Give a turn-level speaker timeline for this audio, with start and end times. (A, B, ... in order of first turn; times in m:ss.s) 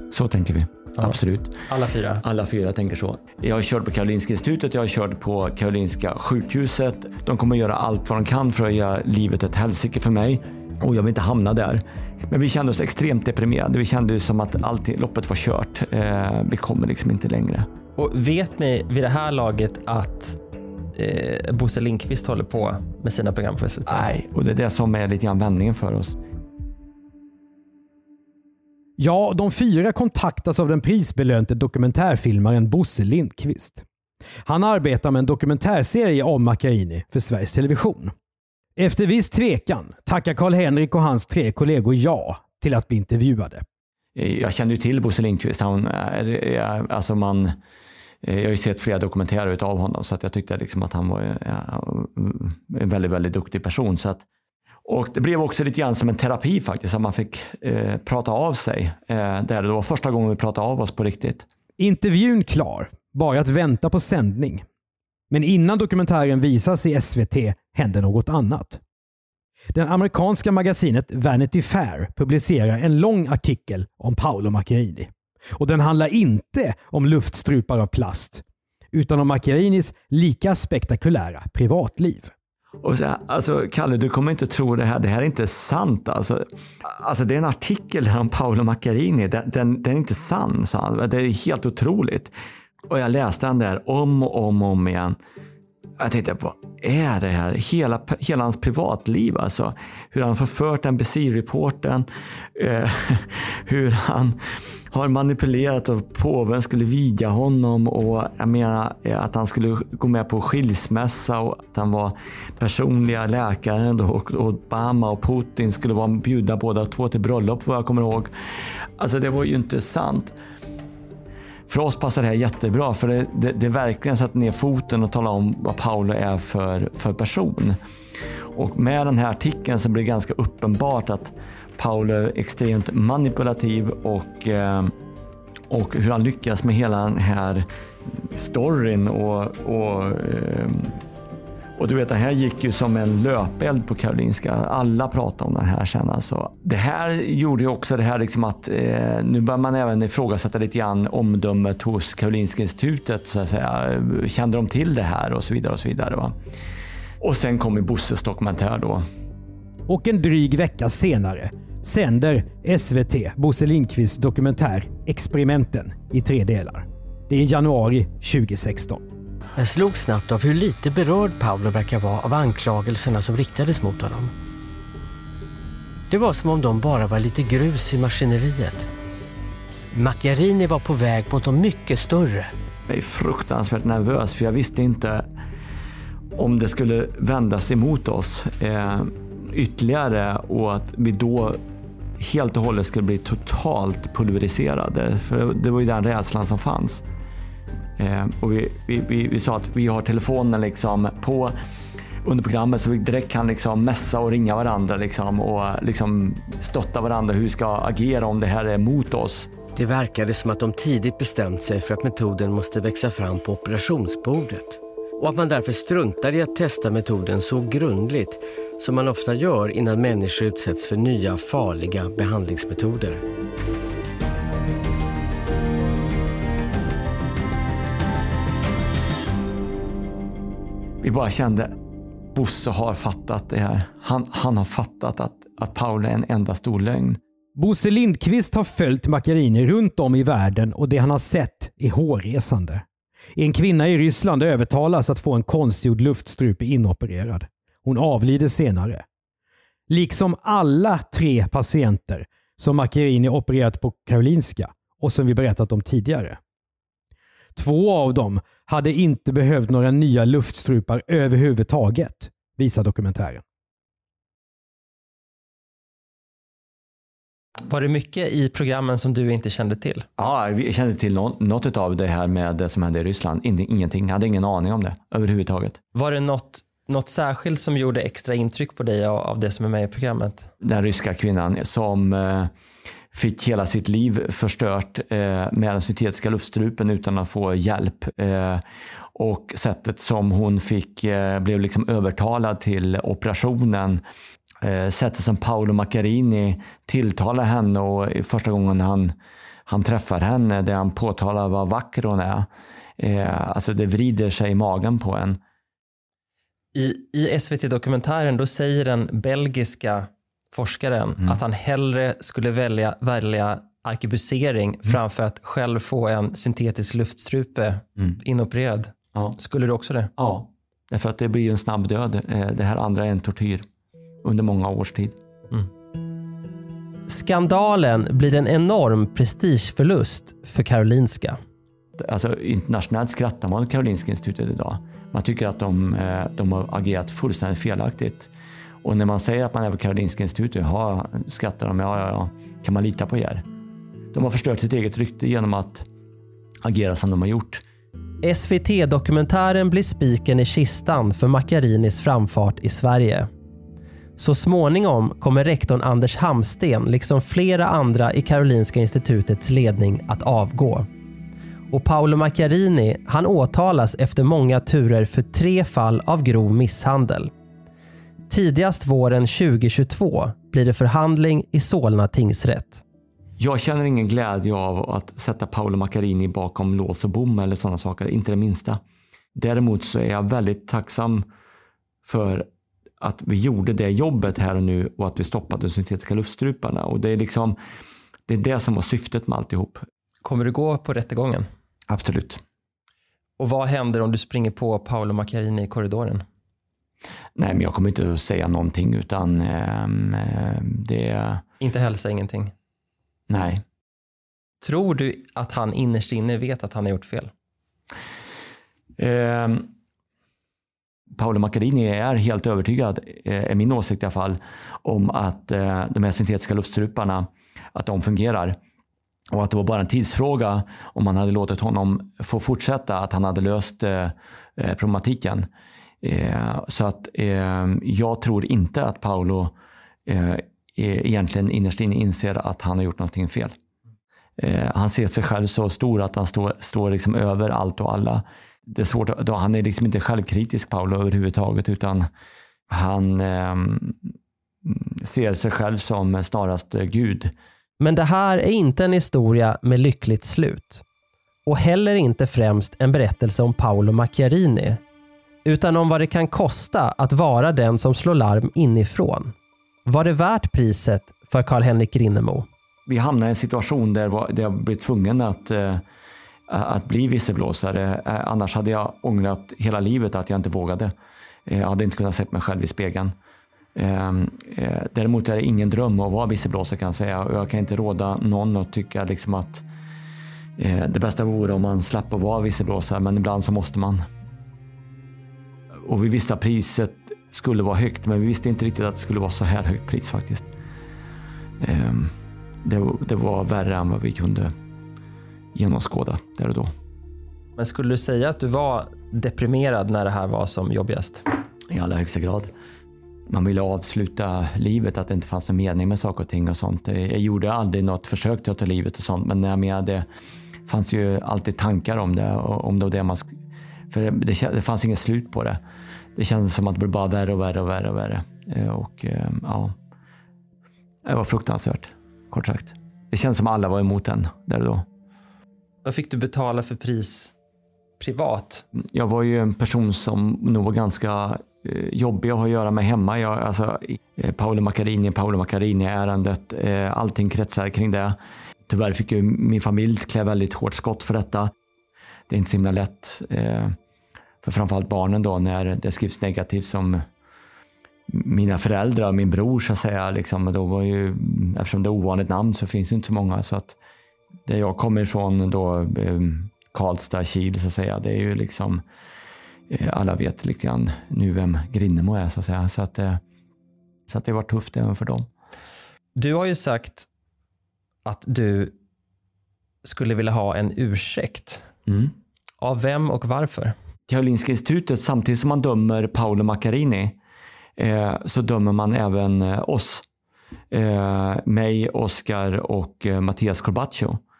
0:00.1-0:01.7 A
0:01.0-0:02.2 B
0:02.2-0:17.7 A
0:18.0-0:20.4 B
0:21.0-0:24.0 B
0:23.9-0:26.2 A
0:29.0-0:33.8 C
0:34.5-0:38.1 C
0:38.8-0:43.6 C
0:44.2-0:47.6 A
0:48.2-0:54.3 A
0:54.9-1:01.5 A
1:01.8-1:04.6 C
1:05.3-1:08.8 C
1:09.7-1:22.3 C
1:22.8-1:32.3 A
1:32.9-1:35.2 A
1:36.0-1:44.4 A
1:44.9-2:00.4 A
2:01.7-2:07.8 A
2:08.5-2:14.9 A
2:15.7-2:21.0 A
2:21.8-2:36.4 A
2:37.2-2:39.0 A
2:39.9-2:49.0 C
2:49.6-2:54.3 D
2:56.1-2:58.9 D
2:59.9-3:02.5 D
3:02.9-3:05.3 A
3:06.4-3:11.6 A
3:12.2-3:17.0 A
3:18.0-3:21.6 A
3:22.2-3:29.5 A
3:29.8-3:43.2 D
3:51.0-3:51.7 A
3:52.3-3:57.2 A
3:57.6-4:02.8 C
4:03.4-4:09.0 C
4:09.9-4:16.4 C
4:17.6-4:23.4 C
4:27.7-4:30.1 B
4:30.2-4:35.8 A
4:35.9-4:40.5 B
4:40.6-4:42.5 A
4:43.1-4:48.6 A
4:49.2-4:54.0 A
4:54.6-4:59.2 A
4:59.7-5:05.4 A
5:06.8-5:20.1 B
5:20.2-5:23.7 A
5:24.2-5:25.2 A
5:27.1-5:31.4 B
5:32.0-5:38.3 A
5:38.8-5:43.4 A
5:44.1-5:45.9 A
5:46.6-5:47.6 A
5:48.2-5:53.3 B
5:54.2-6:00.9 B
6:01.7-6:07.3 B
6:08.3-6:12.8 B
6:13.4-6:18.8 A
6:19.4-6:21.3 A
6:22.0-6:22.5 A
6:23.0-6:27.6 A
6:28.3-6:29.9 A
6:30.2-6:31.5 B
6:31.9-6:32.4 A
6:33.4-6:36.2 B
6:37.4-6:41.4 A
6:41.6-6:42.5 B
6:43.3-6:43.6 A
6:44.6-6:47.3 B
6:49.0-6:49.7 A
6:51.1-6:58.6 A
6:59.3-7:05.5 A
7:06.0-7:09.6 A
7:10.1-7:13.6 A
7:14.4-7:22.1 A
7:22.7-7:24.0 A
7:24.6-7:27.3 A
7:27.8-7:30.8 B
7:31.5-7:34.8 B
7:35.4-7:39.3 B
7:39.9-7:42.5 B
7:42.9-7:45.8 A
7:46.5-7:50.9 A
7:51.5-7:53.2 A
7:53.8-7:59.6 A
8:00.6-8:04.1 A
8:05.8-8:10.5 A
8:11.6-8:12.1 A
8:12.6-8:14.5 A
8:15.6-8:16.7 A
8:17.6-8:21.2 B
8:21.7-8:22.5 A
8:23.3-8:30.1 A
8:30.7-8:33.4 A
8:33.9-8:35.6 A
8:36.2-8:39.8 A
8:41.0-8:44.9 A
8:45.8-8:47.3 B
8:48.0-8:48.6 B
8:48.8-9:01.5 A
9:02.3-9:03.8 A
9:04.4-9:07.1 A
9:08.1-9:13.8 A
9:14.5-9:18.8 A
9:19.7-9:23.2 A
9:24.1-9:25.3 A
9:26.2-9:27.1 B
9:28.0-9:28.7 B
9:29.8-9:31.6 B
9:31.9-9:32.1 A
9:32.6-9:33.8 B
9:34.1-9:37.2 A
9:37.8-9:40.0 A
9:40.7-9:44.2 A